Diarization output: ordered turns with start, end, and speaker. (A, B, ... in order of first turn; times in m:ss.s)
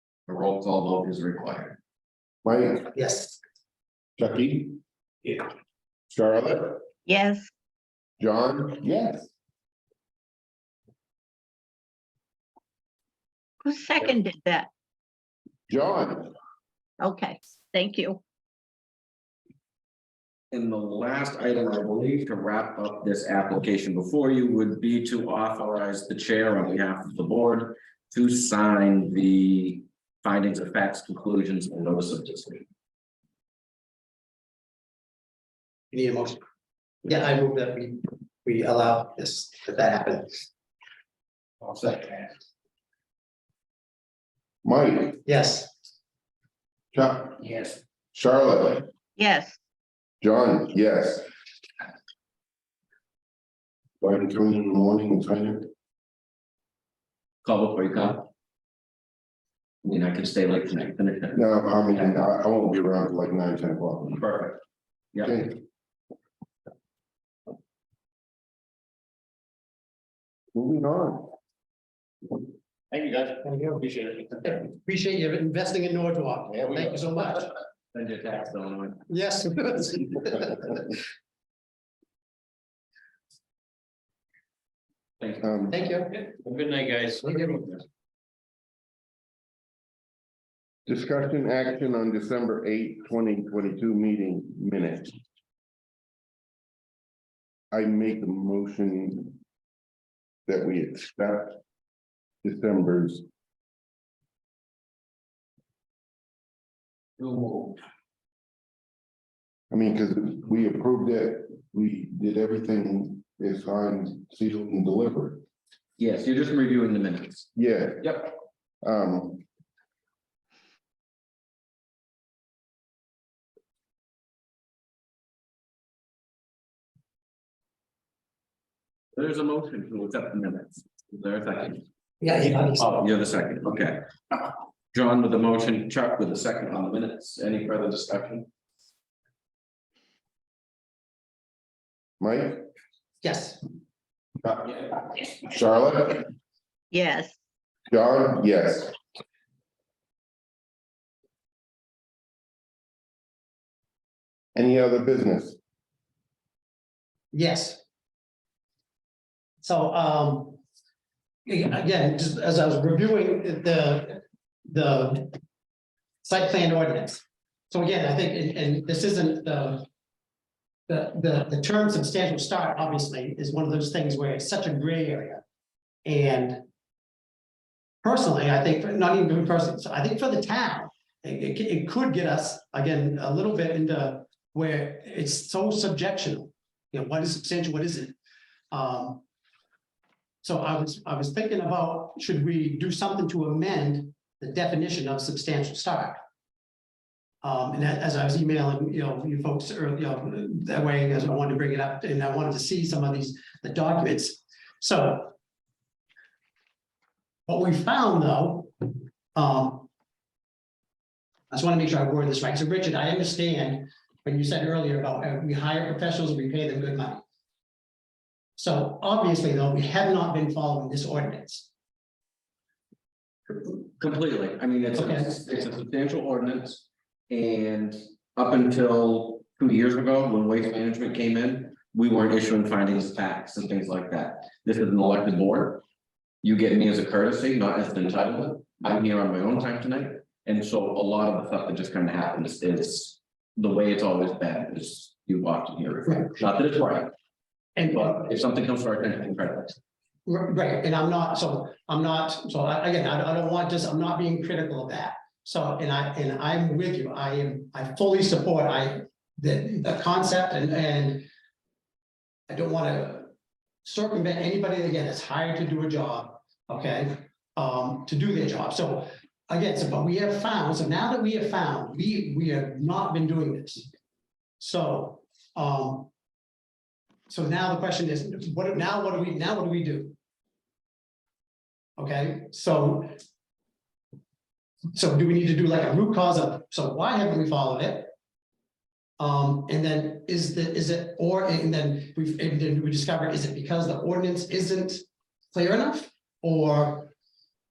0:00.3-0:01.8 A
0:02.4-0:02.9 B
0:02.9-0:03.4 C
0:04.2-0:04.8 B
0:06.1-0:06.8 B
0:07.1-0:07.5 D
0:08.2-0:09.3 B
0:13.6-0:14.7 D
0:15.7-0:16.3 B
0:17.0-0:18.2 D
0:20.5-0:32.6 A
0:35.9-0:36.4 C
0:37.0-0:40.5 C
0:41.7-0:42.0 E
0:44.6-0:45.2 B
0:45.2-0:45.7 C
0:46.9-0:47.4 B
0:48.1-0:48.9 B
0:49.2-0:49.6 D
0:50.2-0:51.2 B
0:54.0-0:55.7 B
0:57.4-0:58.3 A
0:59.8-1:01.4 A
1:01.3-1:04.2 B
1:04.1-1:04.6 A
1:05.1-1:05.5 A
1:05.2-1:05.6 B
1:10.5-1:11.3 B
1:12.9-1:14.5 E
1:13.4-1:13.8 C
1:14.4-1:17.5 C
1:17.9-1:19.0 A
1:19.1-1:20.8 C
1:25.4-1:25.8 B
1:25.7-1:26.3 C
1:26.3-1:27.8 E
1:27.3-1:27.6 C
1:30.9-1:35.1 B
1:37.7-1:39.4 B
1:40.5-1:41.6 B
1:42.4-1:43.2 B
1:47.2-1:47.7 A
1:49.7-1:55.4 B
1:56.0-1:57.5 A
1:57.6-1:59.4 B
1:58.0-1:58.3 A
2:09.1-2:11.8 A
2:12.2-2:13.0 C
2:12.7-2:14.0 A
2:14.9-2:18.5 A
2:22.2-2:22.6 B
2:23.2-2:23.6 C
2:24.4-2:26.3 B
2:26.9-2:27.4 D
2:27.9-2:28.9 B
2:34.5-2:35.6 B
2:37.3-2:37.8 C
2:39.6-2:40.6 C
2:41.4-2:45.4 C
2:46.2-2:49.9 C
2:50.9-2:55.4 C
2:56.0-2:56.6 C
2:58.0-3:08.1 C
3:08.7-3:09.2 C
3:10.4-3:16.2 C
3:17.4-3:25.3 C
3:27.5-3:29.9 C
3:31.5-3:37.2 C
3:38.6-3:41.7 C
3:43.6-3:55.8 A
3:45.0-3:45.4 C
3:56.4-4:07.1 A
4:07.8-4:08.2 C
4:07.9-4:09.8 A
4:10.2-4:21.3 C
4:22.5-4:23.3 C
4:23.8-4:33.9 C
4:34.6-4:36.1 C
4:37.3-4:40.1 C
4:42.0-4:43.2 C
4:44.9-4:48.1 C
4:49.2-4:57.1 C